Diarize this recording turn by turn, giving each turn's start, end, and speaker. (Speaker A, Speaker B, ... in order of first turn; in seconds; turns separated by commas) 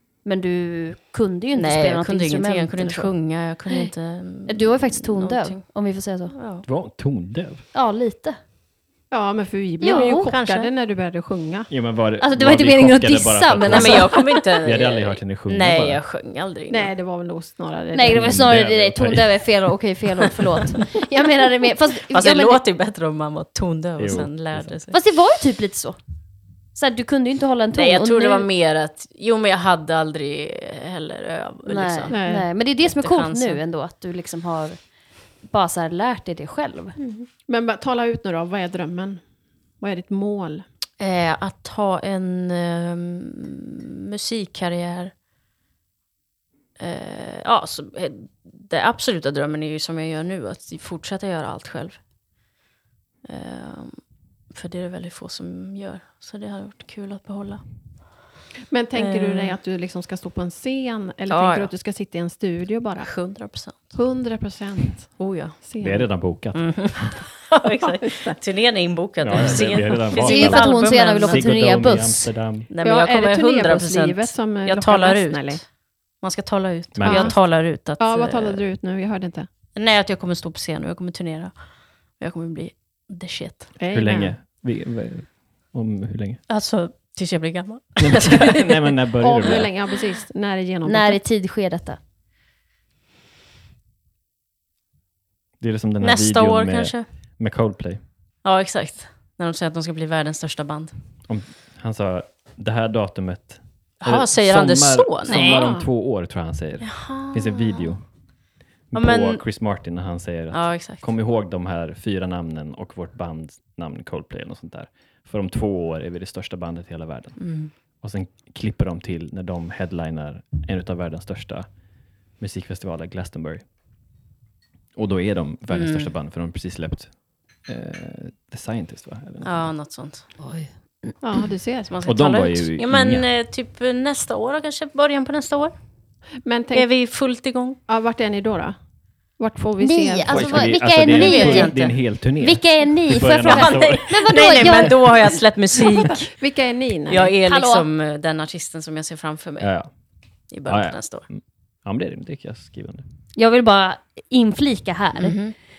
Speaker A: 0.2-3.1, Speaker B: 1.5-5.6, Speaker A: 4.5-6.3, Speaker B: 6.3-6.7, Speaker C: 6.6-7.6, Speaker A: 7.7-8.4, Speaker D: 9.1-11.7, Speaker A: 9.8-10.3, Speaker B: 9.8-10.7, Speaker C: 11.7-16.0, Speaker A: 12.2-14.4, Speaker B: 13.7-16.9, Speaker D: 16.7-18.5, Speaker A: 17.9-22.6, Speaker C: 18.1-19.7, Speaker B: 21.9-24.9, Speaker C: 24.0-24.8, Speaker A: 24.9-26.0, Speaker A: 26.7-28.5, Speaker B: 27.7-32.2, Speaker A: 31.6-34.8, Speaker D: 32.1-32.5, Speaker B: 32.8-33.6, Speaker A: 35.5-37.0, Speaker B: 37.0-37.3, Speaker D: 37.5-39.2, Speaker D: 39.8-40.6, Speaker B: 41.0-45.1, Speaker B: 46.8-52.0, Speaker B: 53.2-54.0, Speaker B: 54.5-57.6, Speaker D: 58.7-63.1, Speaker B: 58.9-59.6, Speaker B: 61.3-61.7, Speaker B: 63.0-63.9, Speaker D: 63.9-66.1, Speaker B: 65.0-65.5, Speaker C: 65.8-66.9, Speaker B: 66.5-71.5, Speaker D: 67.6-68.4, Speaker C: 69.2-72.7, Speaker A: 70.1-72.3, Speaker B: 72.7-75.7, Speaker D: 72.8-75.6, Speaker B: 76.2-78.6, Speaker C: 76.9-77.3, Speaker D: 77.0-77.4, Speaker D: 78.0-79.5, Speaker B: 79.8-81.5, Speaker B: 82.2-83.7, Speaker D: 83.8-84.3, Speaker C: 83.9-86.4, Speaker B: 86.5-88.9, Speaker C: 88.0-89.7, Speaker D: 89.2-91.2, Speaker A: 90.8-92.0, Speaker C: 95.6-98.0, Speaker B: 96.0-97.1, Speaker B: 98.4-100.9, Speaker C: 101.3-108.0, Speaker B: 104.0-105.7, Speaker D: 105.3-105.9, Speaker B: 106.8-107.9, Speaker C: 108.9-121.7, Speaker B: 108.9-109.4, Speaker B: 110.5-111.0, Speaker B: 117.4-117.7, Speaker C: 122.4-123.6, Speaker C: 125.0-127.1, Speaker B: 125.7-126.1, Speaker C: 127.6-129.7, Speaker B: 129.4-130.3, Speaker A: 130.4-131.5, Speaker D: 131.2-132.0, Speaker B: 131.9-135.7, Speaker C: 132.0-133.2, Speaker D: 136.4-136.9, Speaker B: 136.7-137.8, Speaker D: 137.9-138.8, Speaker D: 139.4-140.7, Speaker A: 139.8-145.1, Speaker C: 140.2-144.7, Speaker B: 141.0-141.9, Speaker B: 143.4-146.3, Speaker D: 146.3-147.3, Speaker B: 147.1-149.7, Speaker A: 147.4-147.9, Speaker C: 149.6-149.9, Speaker B: 150.5-151.2, Speaker C: 150.7-153.0, Speaker A: 153.3-155.4, Speaker B: 155.2-155.5